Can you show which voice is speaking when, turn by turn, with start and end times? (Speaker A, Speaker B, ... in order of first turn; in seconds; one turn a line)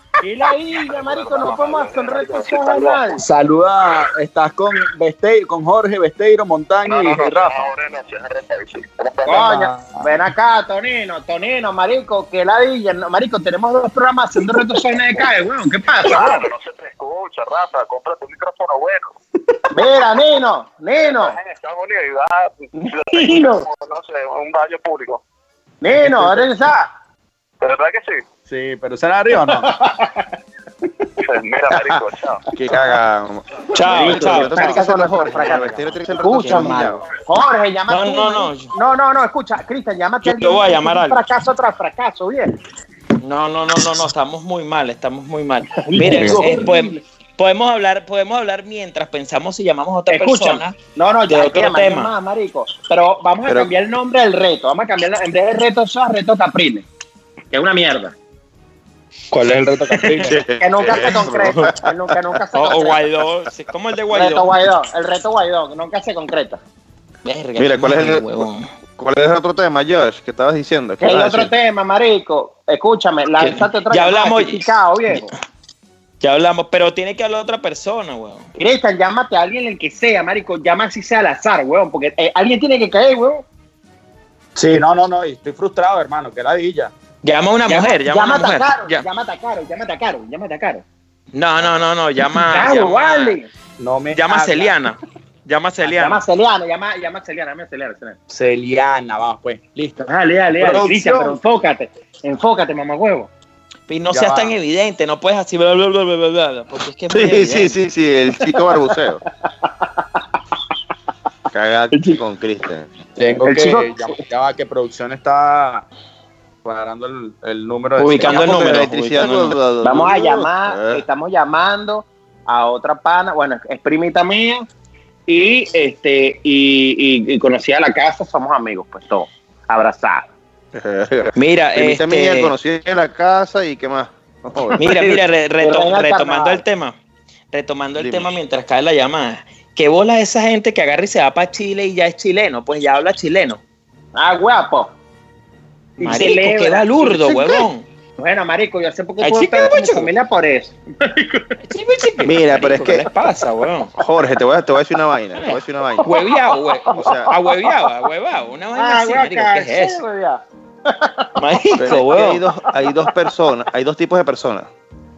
Speaker A: 0.2-3.2
Speaker B: 0.9-3.0
Speaker C: 3.2-7.7
Speaker B: 6.8-9.5
Speaker A: 9.2-16.4
Speaker C: 9.3-10.1
Speaker B: 16.0-19.1
Speaker A: 19.7-21.4
Speaker B: 21.0-25.2
Speaker A: 22.8-23.7
Speaker A: 25.8-26.9
Speaker C: 25.9-26.4
Speaker B: 27.6-28.2
Speaker C: 28.5-29.7
Speaker A: 29.6-30.1
Speaker B: 31.2-32.4
Speaker D: 32.5-37.0
Speaker E: 33.7-34.8
Speaker A: 33.9-42.5
Speaker E: 35.5-37.0
Speaker E: 37.9-38.7
Speaker E: 40.2-41.2
Speaker E: 43.2-50.8
Speaker A: 45.8-46.9
Speaker C: 46.2-46.6
Speaker A: 50.1-56.9
Speaker E: 51.3-52.1
Speaker A: 57.5-58.1
Speaker C: 59.3-60.4
Speaker D: 60.0-62.2
Speaker A: 60.6-63.0
Speaker E: 61.4-61.7
Speaker E: 62.5-64.5
Speaker A: 64.1-66.6
Speaker E: 67.2-68.7
Speaker D: 67.6-68.4
Speaker D: 69.0-71.5
Speaker A: 71.0-75.3
Speaker E: 73.4-75.2
Speaker E: 76.2-78.5
Speaker A: 78.6-83.5
Speaker C: 84.5-86.9
Speaker E: 87.2-89.0
Speaker A: 87.7-90.8
Speaker E: 91.3-93.4
Speaker A: 92.4-93.5
Speaker C: 93.8-94.8
Speaker E: 94.1-96.2
Speaker A: 95.8-98.2
Speaker C: 98.3-100.0
Speaker A: 100.0-103.3
Speaker C: 100.6-101.4
Speaker E: 103.9-107.7
Speaker C: 104.1-104.6
Speaker D: 107.1-109.2
Speaker A: 109.6-110.0
Speaker D: 111.5-112.9
Speaker A: 111.9-112.2
Speaker C: 113.2-115.8
Speaker A: 113.4-114.2
Speaker C: 116.6-118.5
Speaker E: 118.0-119.5
Speaker D: 118.2-121.0
Speaker A: 119.8-124.7
Speaker A: 125.3-130.3
Speaker D: 130.7-134.8
Speaker E: 131.3-132.5
Speaker A: 134.7-136.6
Speaker E: 134.8-136.9
Speaker E: 137.5-143.6
Speaker D: 137.9-138.3
Speaker A: 144.1-144.9
Speaker E: 146.0-147.8
Speaker A: 146.0-151.6
Speaker E: 149.2-150.1
Speaker E: 151.6-153.9
Speaker D: 152.2-153.1
Speaker D: 154.0-156.1
Speaker E: 155.4-160.0
Speaker A: 156.1-157.8
Speaker D: 156.9-157.3
Speaker A: 158.7-161.4
Speaker E: 161.4-162.4
Speaker D: 161.8-164.7
Speaker A: 162.2-163.1